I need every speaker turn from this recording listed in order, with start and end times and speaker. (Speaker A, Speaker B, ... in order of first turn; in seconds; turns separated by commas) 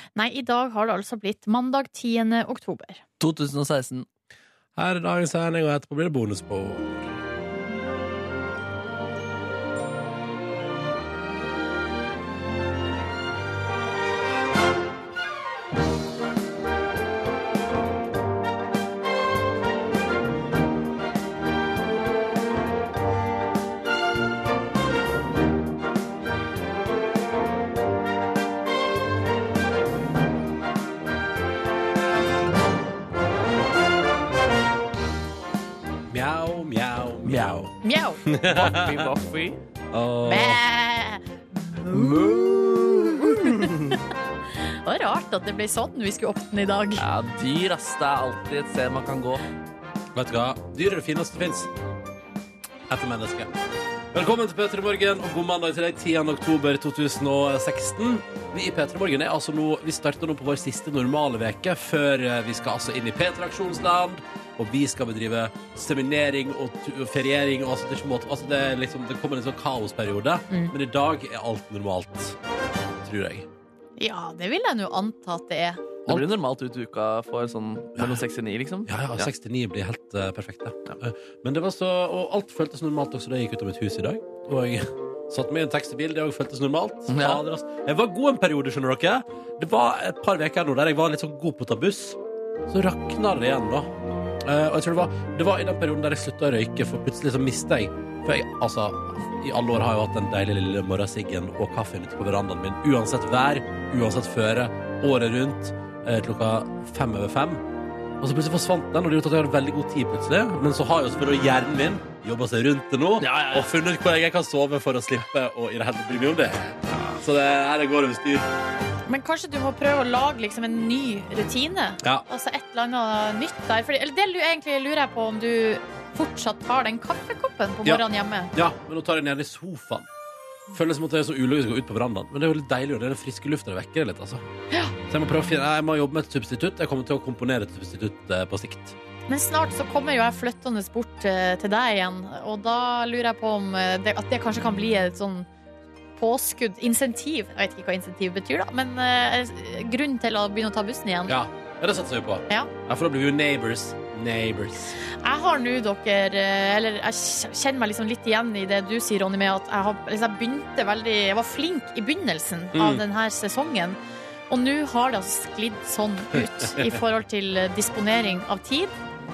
Speaker A: 0.2-3.0, Speaker B: 3.2-4.1, Speaker C: 4.8-7.2, Speaker C: 36.1-37.7, Speaker B: 37.2-37.6, Speaker A: 37.8-38.2, Speaker C: 38.2-39.1, Speaker B: 38.5-39.6, Speaker C: 39.9-40.6, Speaker A: 40.2-41.2, Speaker B: 41.9-44.0, Speaker A: 41.9-44.0, Speaker A: 44.6-47.0, Speaker B: 47.0-49.5, Speaker C: 50.1-51.7, Speaker C: 52.9-53.5, Speaker C: 54.1-72.4, Speaker A: 70.5-70.8, Speaker C: 73.0-73.5, Speaker A: 74.0-75.8, Speaker B: 76.1-79.3, Speaker C: 78.0-78.2, Speaker C: 78.9-92.2, Speaker B: 87.1-87.4, Speaker C: 92.7-93.9, Speaker C: 94.4-107.6, Speaker C: 108.2-118.5, Speaker B: 113.2-113.7, Speaker A: 119.1-128.5, Speaker C: 127.8-130.1, Speaker C: 130.7-134.4, Speaker A: 134.7-135.0, Speaker C: 135.1-139.0, Speaker A: 139.3-145.5, Speaker A: 146.2-151.4, Speaker C: 151.3-155.0, Speaker A: 155.1-164.0, Speaker C: 162.7-163.0, Speaker A: 164.5-168.9, Speaker C: 166.3-167.0